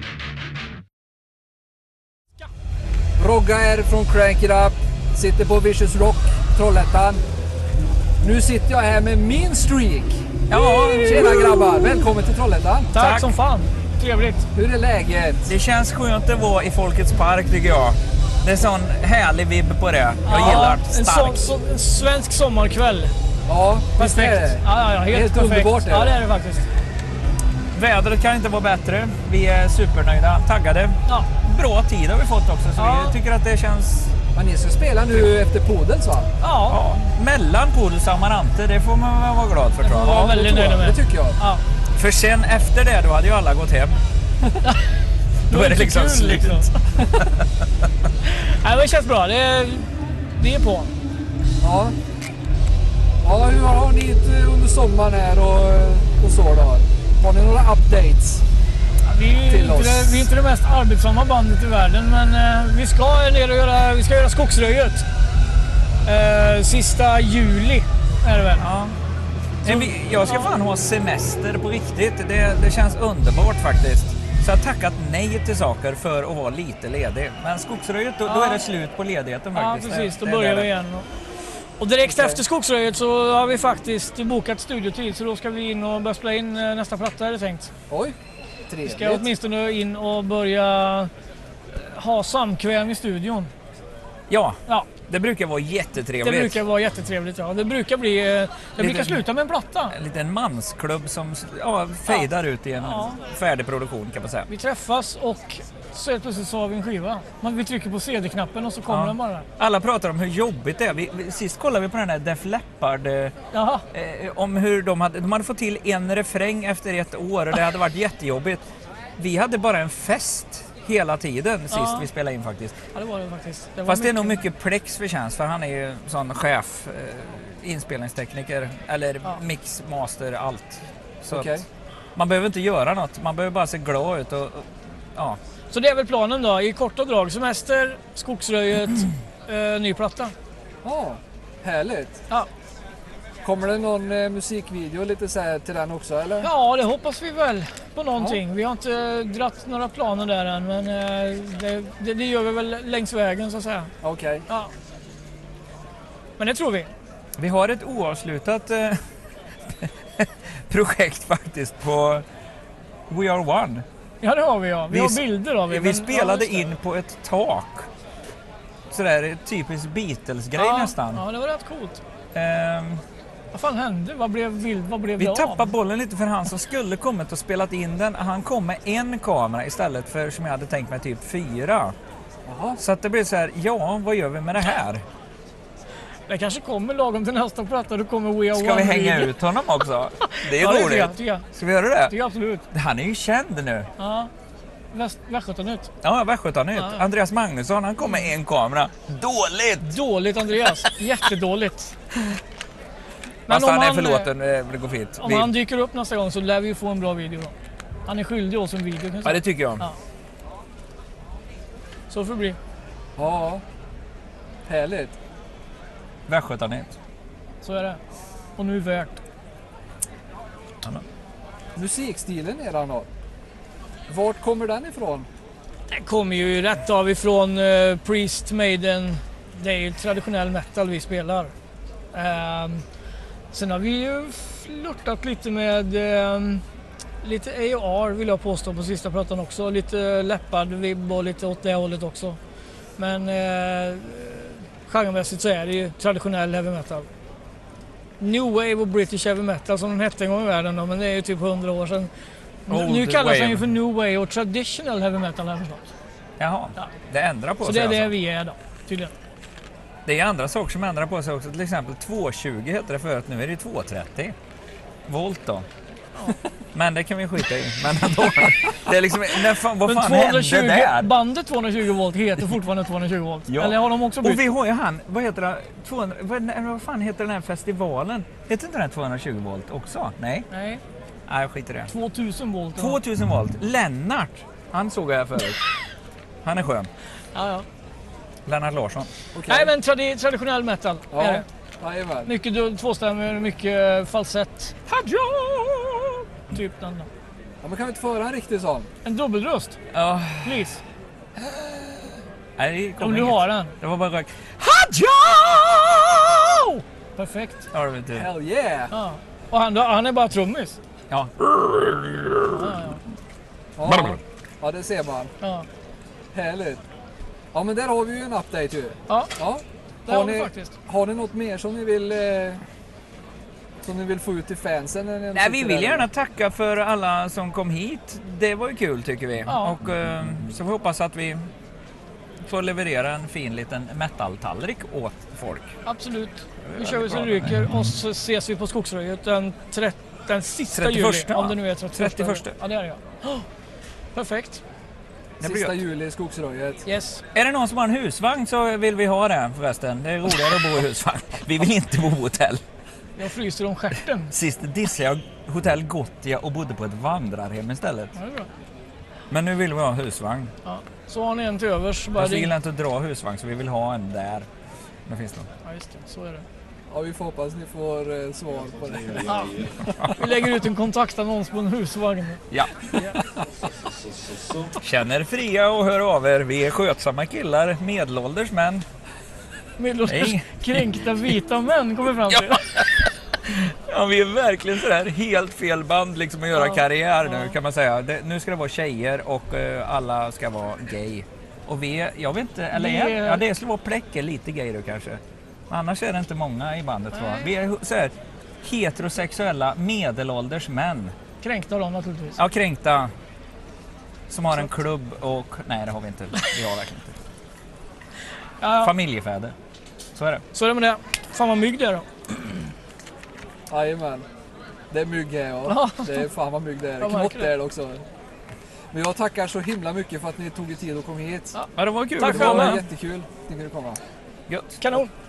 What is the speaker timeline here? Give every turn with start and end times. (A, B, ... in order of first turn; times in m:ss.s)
0:03.2-0:07.2 A
0:08.2-0:10.3 A
0:10.5-0:11.8 B
0:10.9-0:12.9 A
0:12.9-0:14.4 C
0:12.9-0:13.3 B
0:14.5-0:15.5 A
0:15.5-0:21.5 B
0:20.2-0:23.1 C
0:23.5-0:26.2 A
0:24.0-0:26.6 C
0:27.7-0:34.2 B
0:32.8-0:33.2 C
0:34.3-0:36.3 A
0:36.4-0:36.8 C
0:36.6-0:40.2 B
0:39.8-0:41.6 C
0:40.1-0:41.4 A
0:42.0-0:44.0 B
0:45.5-0:46.8 C
0:45.5-0:46.7 B
0:48.2-0:50.9 C
0:51.6-0:51.9 A
0:53.2-0:58.4 A
0:59.0-1:05.1 C
0:59.4-1:00.3 A
1:06.0-1:08.7 C
1:08.6-1:09.0 B
1:09.6-1:20.7 B
1:09.6-1:10.5 C
1:18.3-1:18.6 C
1:19.5-1:21.1 C
1:21.8-1:27.7 C
1:22.0-1:22.4 A
1:27.9-1:28.2 A
1:28.7-1:29.3 A
1:28.8-1:31.1 C
1:31.7-1:33.5 C
1:34.3-1:36.6 B
1:36.2-1:40.0 C
1:38.8-1:39.3 B
1:39.9-1:44.5 B
1:42.8-1:43.2 C
1:44.5-1:49.5 C
1:48.9-1:53.3 B
1:53.5-1:53.8 C
1:53.9-1:58.6 B
1:59.2-2:02.8 B
2:01.7-2:02.1 C
2:02.9-2:04.4 C
2:03.9-2:11.5 B
2:11.3-2:11.7 A
2:12.2-2:15.4 B
2:15.7-2:20.3 C
2:20.8-2:22.2 A
2:23.4-2:26.5 A
2:26.4-2:33.9 C
2:34.0-2:34.4 A
2:36.4-2:36.9 C
2:37.4-2:39.0 B
2:39.7-2:42.2 B
2:43.1-2:43.8 B
2:44.2-2:46.7 C
2:44.9-2:47.9 B
2:48.9-2:51.2 B
2:50.6-2:52.0 C
2:52.3-2:53.0 B
2:53.5-2:55.7 C
2:55.2-3:01.9 B
3:02.5-3:02.8 A
3:02.8-3:05.0 B
3:06.3-3:09.3 C
3:08.5-3:12.2 B
3:10.2-3:11.5 C
3:12.1-3:12.7 C
3:12.7-3:13.9 B
3:14.0-3:14.3 C
3:14.9-3:15.9 C
3:16.0-3:19.9 B
3:16.8-3:17.0 C
3:19.8-3:22.0 C
3:23.5-3:24.3 C
3:23.5-3:25.6 B
3:25.2-3:27.6 C
3:28.1-3:30.0 C
3:29.2-3:29.8 B
3:32.1-3:32.6 C
3:33.2-3:33.6 A
3:34.7-3:35.2 A
3:36.3-3:36.9 B
3:37.6-3:38.0 C
3:38.6-3:39.2 C
3:41.8-3:43.1 A
3:44.1-3:45.3 A
3:45.9-3:51.5 C
3:52.1-3:52.8 C
3:53.5-3:56.6 C
3:57.2-4:02.4 C
4:03.0-4:07.1 C
4:08.2-4:12.1 C
4:12.7-4:15.8 C
4:12.7-4:13.7 B
4:16.4-4:18.1 B
4:17.6-4:19.1 C
4:20.1-4:24.3 B
4:25.1-4:25.7 B
4:26.7-4:31.1 B
4:29.8-4:34.4 C
4:33.5-4:40.5 B
4:40.5-4:40.8 C
4:41.3-4:41.9 B
4:41.9-4:43.0 C
4:42.8-4:45.7 B
4:46.4-4:46.9 B
4:47.3-4:47.7 C
4:48.4-4:49.1 B
4:49.4-4:49.7 A
4:49.5-4:51.4 C
4:51.1-4:52.3 A
4:52.2-4:54.7 C
4:54.9-4:56.2 B
4:56.5-4:57.1 C
4:57.6-4:58.9 A
4:59.0-4:59.8 C
4:59.9-5:00.7 B
5:00.4-5:00.8 C
5:02.6-5:06.8 B
5:03.0-5:03.8 C
5:07.1-5:07.6 C
5:07.7-5:08.3 B
5:08.1-5:08.9 A
5:08.9-5:10.8 C
5:11.1-5:12.5 B
5:12.4-5:13.0 C
5:13.8-5:15.3 A
5:15.4-5:15.7 C
5:16.3-5:16.8 A
5:17.5-5:22.6 A
5:19.1-5:19.3 C
5:20.1-5:20.7 C
5:23.8-5:26.1 A
5:25.3-5:31.4 B
5:29.5-5:29.8 C
5:32.4-5:35.8 B
5:35.8-5:43.5 C
5:36.6-5:37.7 B
5:40.7-5:42.6 B
5:44.1-5:44.6 C
5:45.4-5:45.8 B
5:45.4-5:46.8 A
5:46.9-5:47.2 C
5:47.3-5:52.6 B
5:53.2-5:54.3 C
5:54.3-5:58.1 B
5:58.1-5:58.5 C
5:59.3-6:00.5 B
6:00.6-6:02.5 C
6:02.1-6:04.5 B
6:05.1-6:05.5 B
6:05.6-6:06.4 C
6:06.9-6:09.4 A
6:09.2-6:12.4 C
6:12.5-6:13.2 B
6:14.8-6:18.8 B
6:19.8-6:22.8 C
6:20.1-6:21.0 B
6:22.3-6:41.1 B
6:26.5-6:27.6 C
6:32.7-6:33.4 C
6:37.1-6:37.5 C
6:41.4-6:42.4 C
6:42.4-6:43.1 B
6:44.3-6:47.2 B
6:48.6-6:48.9 C
6:48.8-6:49.6 B
6:50.1-6:50.4 B
6:50.5-6:52.4 C
6:53.7-6:54.2 A
6:54.9-6:58.0 A
6:55.7-6:56.2 C
6:57.0-6:57.5 C
6:58.9-7:01.5 A
7:01.5-7:02.8 C
7:01.8-7:02.8 B
7:02.2-7:04.0 A
7:04.5-7:04.9 B
7:04.8-7:05.1 C